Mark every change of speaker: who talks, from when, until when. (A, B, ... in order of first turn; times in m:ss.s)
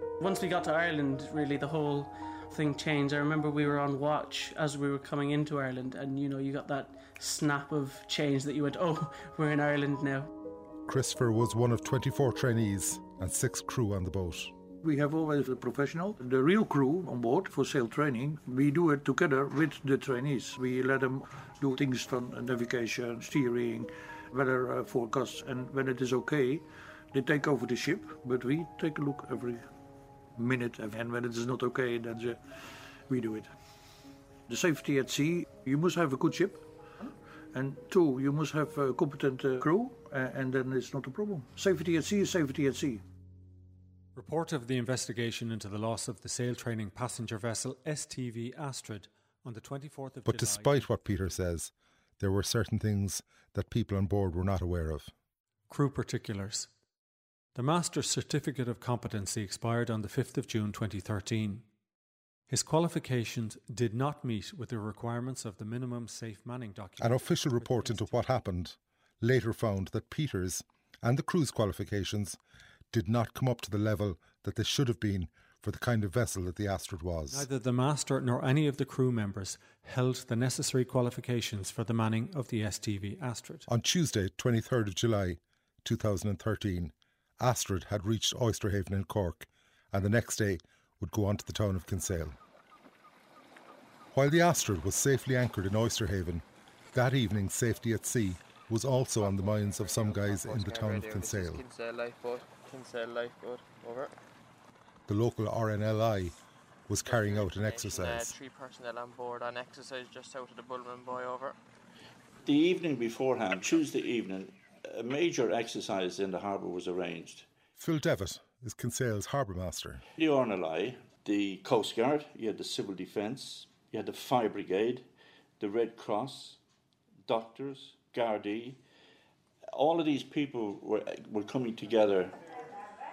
0:00.2-0:10.3 A
0:10.9-0:14.5 B
0:14.8-0:29.7 C
0:30.4-0:33.5 C
0:34.5-0:43.0 C
0:44.2-0:50.9 D
0:50.2-0:55.1 B
0:55.7-0:56.7 D
0:57.6-1:01.7 D
1:02.5-1:08.4 D
1:07.0-1:12.4 B
1:12.9-1:17.5 B
1:17.3-1:23.7 D
1:23.7-1:32.4 B
1:34.1-1:41.7 B
1:39.2-1:44.1 E
1:45.1-1:48.4 B
1:47.1-1:51.6 E
1:52.4-1:57.5 F
1:57.8-2:00.0 B
2:00.2-2:05.0 F
2:05.6-2:06.6 F
2:07.3-2:08.8 F
2:09.7-2:12.4 F